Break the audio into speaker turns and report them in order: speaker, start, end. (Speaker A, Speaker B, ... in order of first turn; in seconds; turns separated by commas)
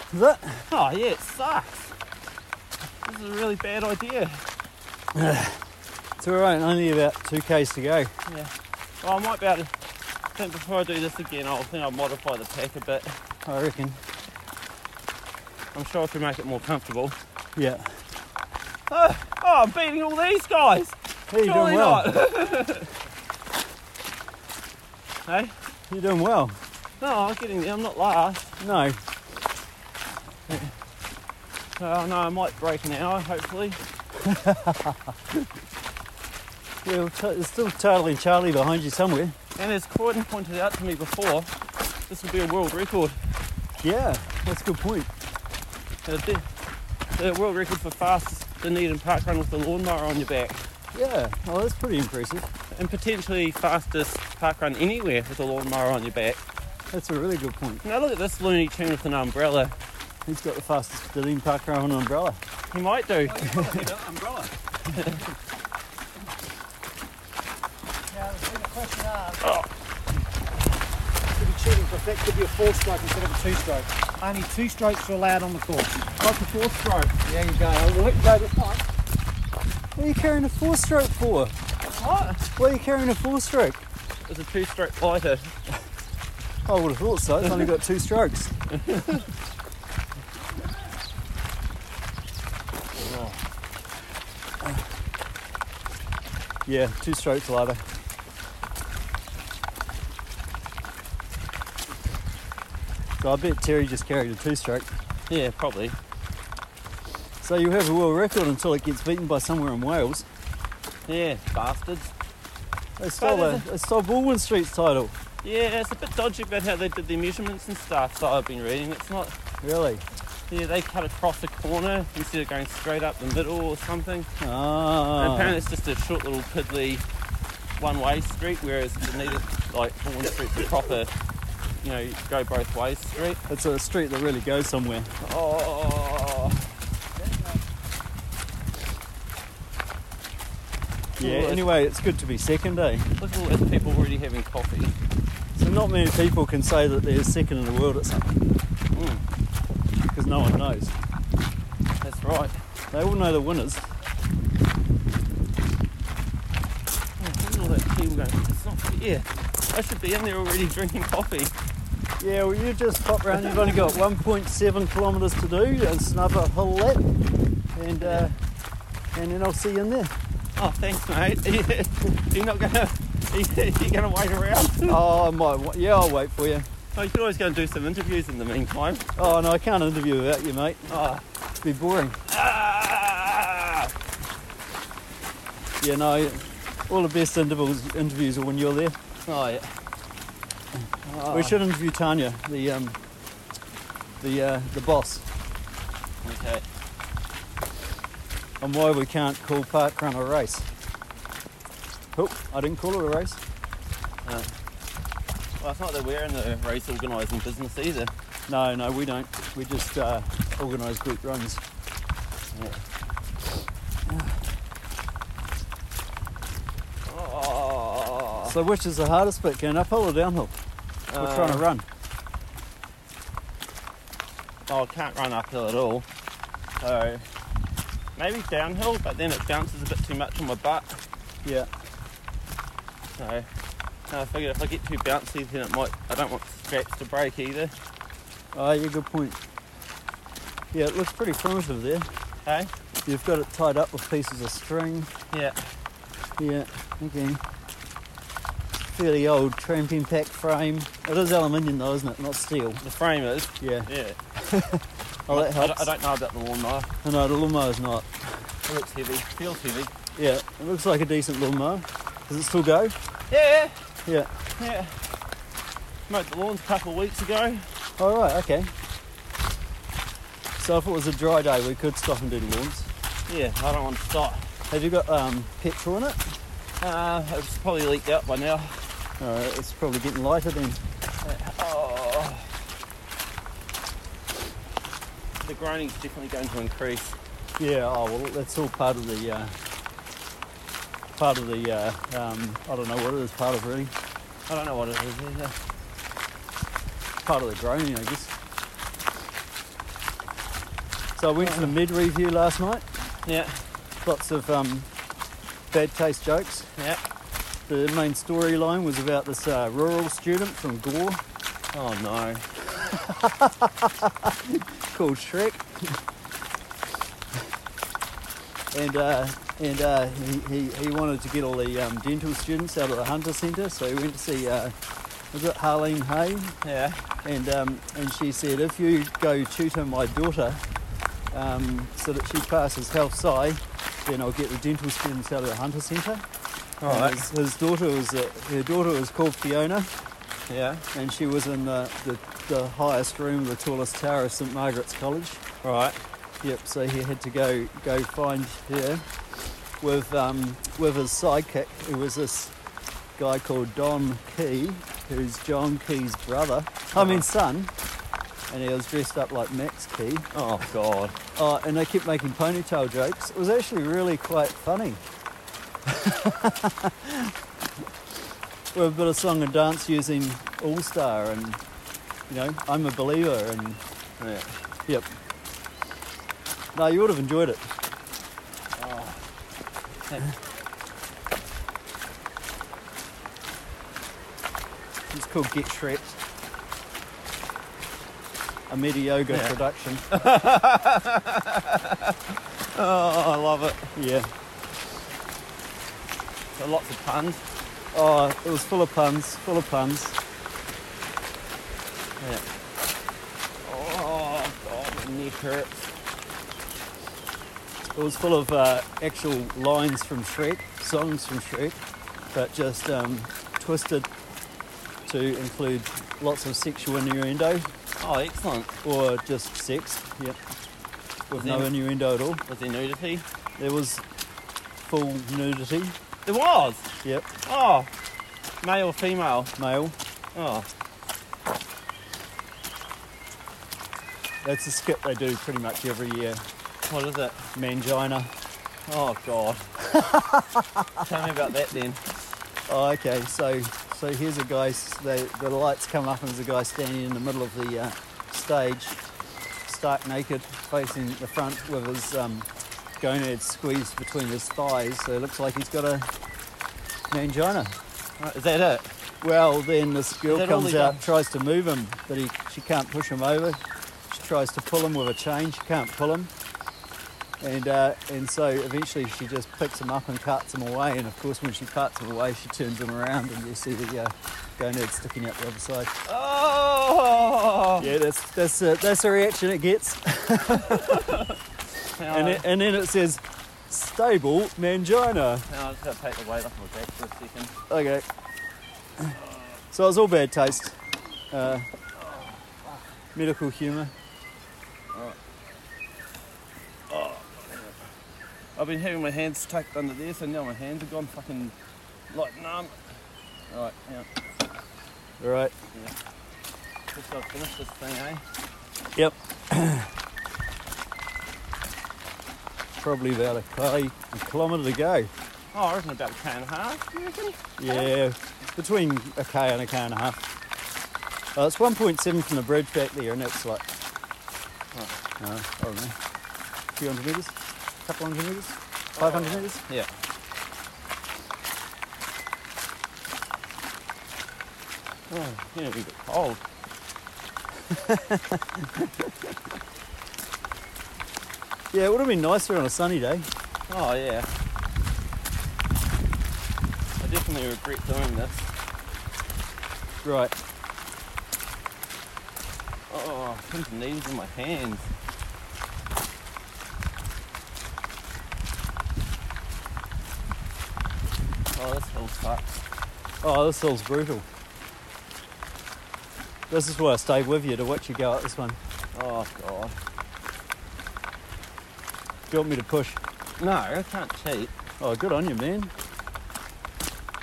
Speaker A: 0.1-0.7, Speaker B: 0.7-1.9, Speaker B: 3.0-4.4, Speaker A: 5.1-5.6, Speaker A: 6.2-8.1, Speaker B: 8.3-9.7, Speaker B: 10.4-13.2, Speaker A: 13.5-14.0, Speaker B: 15.7-17.2, Speaker A: 17.6-18.0, Speaker B: 18.9-22.9, Speaker A: 21.3-22.1, Speaker B: 25.3-25.5, Speaker A: 25.9-26.6, Speaker B: 27.0-28.6, Speaker A: 28.6-29.0, Speaker B: 31.8-33.8, Speaker A: 34.2-35.1, Speaker A: 36.9-39.4, Speaker B: 39.6-41.5, Speaker B: 42.1-43.2, Speaker A: 43.8-45.1, Speaker B: 46.0-46.5, Speaker B: 47.1-50.6, Speaker A: 50.9-52.5, Speaker B: 52.7-56.4, Speaker A: 56.9-57.8, Speaker B: 57.8-59.8, Speaker A: 60.3-62.4, Speaker B: 62.7-63.7, Speaker A: 63.4-64.0, Speaker C: 63.4-64.5, Speaker B: 64.9-65.2, Speaker C: 68.1-69.5, Speaker C: 71.3-76.1, Speaker B: 76.2-77.2, Speaker C: 77.2-78.9, Speaker A: 80.0-81.6, Speaker B: 81.9-82.4, Speaker A: 82.6-83.9, Speaker B: 84.2-85.5, Speaker A: 86.7-88.5, Speaker B: 88.7-89.2, Speaker B: 93.0-93.4, Speaker A: 96.7-97.8, Speaker A: 103.2-104.9, Speaker B: 105.3-106.0, Speaker A: 107.4-110.3, Speaker B: 111.1-112.1, Speaker A: 113.0-115.2, Speaker B: 113.2-113.7, Speaker B: 115.4-119.3, Speaker A: 119.6-120.0, Speaker B: 120.5-124.3, Speaker A: 124.4-125.6, Speaker B: 125.2-127.0, Speaker B: 127.8-131.1, Speaker B: 131.8-133.4, Speaker A: 133.5-135.1, Speaker B: 135.2-136.7, Speaker B: 141.2-141.7, Speaker A: 141.2-143.1, Speaker B: 143.2-145.0, Speaker A: 145.6-148.4, Speaker B: 148.9-149.2, Speaker A: 150.1-150.9, Speaker B: 152.0-152.6, Speaker A: 152.9-153.8, Speaker B: 157.2-161.5, Speaker A: 162.2-167.0, Speaker B: 163.3-163.9, Speaker A: 167.8-168.3, Speaker B: 168.0-168.3, Speaker A: 169.2-170.1, Speaker B: 170.6-175.0, Speaker A: 174.9-176.7, Speaker B: 176.9-179.1, Speaker A: 179.2-180.9, Speaker B: 180.9-181.2, Speaker A: 181.6-182.2, Speaker B: 182.3-183.9, Speaker A: 185.8-189.0, Speaker B: 189.3-189.7, Speaker B: 191.1-191.6, Speaker A: 191.3-193.0, Speaker A: 194.2-195.2, Speaker B: 196.2-196.6, Speaker A: 198.6-200.7, Speaker A: 202.2-203.4, Speaker B: 204.2-204.5, Speaker B: 205.6-208.1, Speaker A: 208.5-211.6, Speaker B: 212.5-212.8, Speaker B: 217.1-218.6, Speaker A: 218.4-220.6, Speaker B: 221.1-221.7, Speaker A: 221.2-221.9, Speaker B: 224.7-226.1, Speaker B: 226.8-227.2, Speaker B: 228.2-231.0, Speaker A: 231.4-231.7, Speaker B: 233.2-233.5, Speaker B: 234.1-237.7, Speaker A: 238.5-239.4, Speaker A: 240.7-242.1, Speaker B: 242.4-242.7, Speaker A: 243.1-245.1, Speaker B: 245.3-245.6, Speaker A: 246.4-247.4, Speaker A: 249.0-252.8, Speaker B: 252.8-254.2, Speaker A: 253.6-255.9, Speaker B: 255.3-256.9, Speaker A: 257.0-258.1, Speaker B: 258.7-259.9, Speaker A: 260.2-262.9, Speaker B: 263.3-263.8, Speaker B: 264.6-264.9, Speaker B: 266.1-267.7, Speaker A: 268.0-268.7, Speaker A: 270.6-272.9, Speaker B: 273.3-274.4, Speaker A: 274.7-276.2, Speaker B: 276.8-278.8, Speaker A: 279.2-280.8, Speaker B: 281.2-282.5, Speaker B: 285.4-287.2, Speaker A: 287.6-289.5, Speaker A: 291.2-293.9, Speaker B: 294.5-295.6, Speaker A: 297.2-298.3, Speaker A: 301.2-302.9, Speaker B: 301.4-301.8, Speaker B: 303.3-303.6, Speaker A: 304.0-304.9, Speaker A: 305.7-306.7, Speaker A: 307.7-311.2, Speaker B: 311.7-312.5, Speaker A: 312.7-316.0, Speaker A: 318.7-324.7, Speaker A: 325.3-326.6, Speaker B: 326.6-327.0, Speaker A: 327.2-330.6, Speaker A: 331.3-336.2, Speaker B: 336.8-337.3, Speaker A: 336.9-339.9, Speaker B: 340.5-340.9, Speaker A: 340.9-345.5, Speaker B: 345.6-346.0, Speaker A: 346.4-349.1, Speaker A: 349.8-352.5, Speaker A: 353.2-357.7, Speaker B: 356.9-357.3, Speaker A: 358.5-360.3, Speaker B: 360.3-361.2, Speaker A: 361.4-365.0, Speaker A: 365.9-367.3, Speaker A: 368.7-371.6, Speaker A: 372.3-373.8, Speaker B: 374.2-374.5, Speaker A: 376.7-377.7, Speaker B: 378.8-379.2, Speaker A: 385.1-386.2, Speaker A: 388.7-390.0, Speaker B: 389.3-389.6, Speaker B: 390.1-392.2, Speaker B: 392.7-393.9, Speaker A: 393.9-394.3, Speaker B: 396.6-397.4, Speaker A: 397.9-400.2, Speaker B: 402.2-402.4, Speaker B: 403.6-405.9, Speaker A: 407.9-411.8, Speaker A: 412.3-414.1, Speaker A: 415.1-417.7, Speaker B: 418.0-418.8, Speaker A: 418.8-420.4, Speaker A: 421.3-422.4, Speaker B: 421.3-421.7, Speaker B: 422.5-423.2, Speaker A: 423.6-424.0, Speaker A: 424.8-426.0, Speaker B: 426.3-426.9, Speaker B: 427.5-427.9, Speaker B: 428.6-429.5, Speaker A: 429.6-430.0, Speaker B: 430.4-430.7, Speaker A: 434.4-436.4, Speaker B: 436.9-437.4, Speaker A: 437.6-438.3, Speaker B: 438.9-439.7, Speaker A: 439.9-441.0, Speaker B: 441.0-442.4, Speaker A: 442.7-449.0, Speaker A: 449.7-452.5, Speaker A: 453.0-456.1, Speaker A: 457.1-457.8, Speaker B: 458.2-458.9, Speaker A: 459.2-466.3, Speaker B: 460.3-461.0, Speaker A: 467.4-475.9, Speaker B: 476.1-477.9, Speaker A: 477.8-481.1, Speaker B: 480.6-481.4, Speaker B: 482.0-482.4, Speaker A: 482.1-485.5, Speaker B: 485.5-487.6, Speaker A: 487.7-488.1, Speaker A: 489.7-490.8, Speaker A: 491.3-491.7, Speaker B: 492.0-492.8, Speaker A: 493.1-493.9, Speaker B: 496.9-497.8, Speaker B: 498.6-501.6, Speaker B: 502.1-502.8, Speaker B: 503.5-504.1, Speaker A: 505.2-505.5, Speaker B: 506.9-508.2, Speaker A: 508.9-509.9, Speaker A: 512.8-515.1, Speaker B: 515.5-517.9, Speaker A: 517.6-520.2, Speaker A: 521.4-523.6, Speaker A: 525.2-526.0, Speaker A: 526.8-529.6, Speaker B: 529.0-529.9, Speaker B: 535.1-536.4, Speaker A: 537.7-538.9, Speaker A: 541.7-543.3, Speaker B: 543.7-544.3, Speaker B: 547.0-548.5, Speaker A: 550.0-550.3, Speaker B: 552.9-554.9, Speaker B: 561.5-562.6, Speaker A: 563.2-564.3, Speaker A: 566.5-568.6, Speaker B: 568.9-569.8, Speaker A: 572.3-573.0, Speaker B: 573.4-574.5, Speaker A: 574.8-575.7